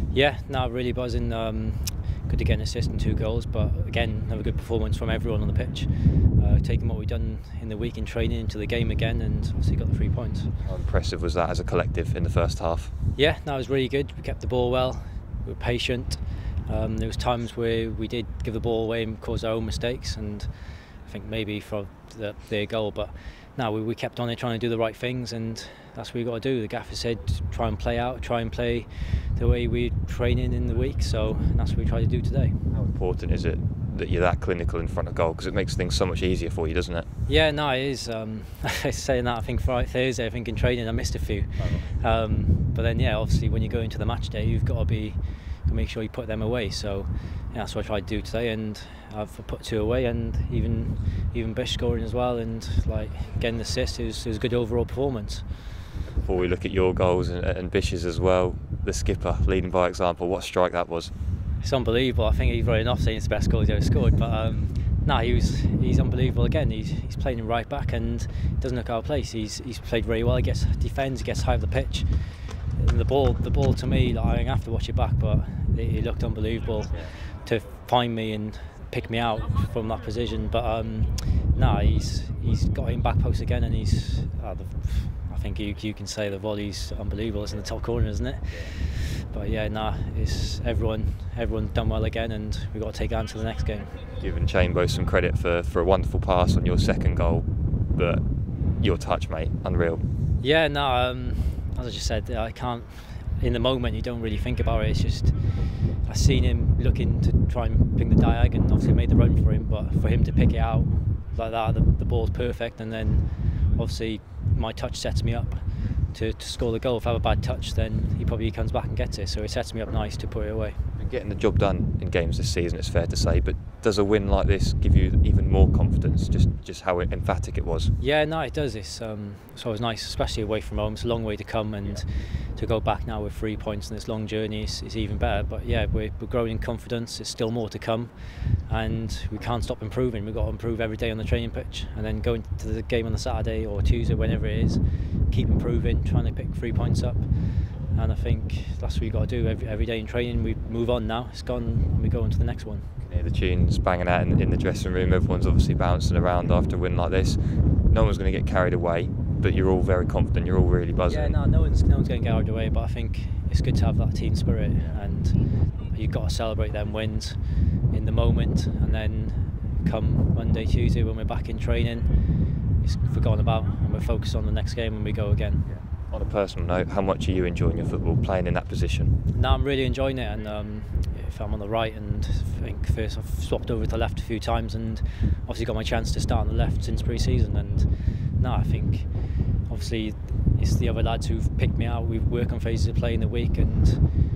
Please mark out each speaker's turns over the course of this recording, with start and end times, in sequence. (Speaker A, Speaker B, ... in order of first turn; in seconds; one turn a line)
Speaker A: 0.1-10.5
Speaker B: 10.7-12.9
Speaker A: 13.2-32.6
Speaker B: 32.7-37.1
Speaker A: 37.3-55.5
Speaker B: 41.6-41.9
Speaker B: 56.1-61.1
Speaker A: 61.6-94.0
Speaker B: 94.2-100.0
Speaker A: 100.4-120.8
Speaker B: 121.0-127.9
Speaker A: 128.0-152.9
Speaker B: 153.0-161.4
Speaker A: 161.1-165.4
Speaker A: 165.9-167.4
Speaker A: 167.9-172.1
Speaker A: 172.8-175.6
Speaker B: 175.7-179.1
Speaker A: 179.3-189.1
Speaker A: 189.7-194.0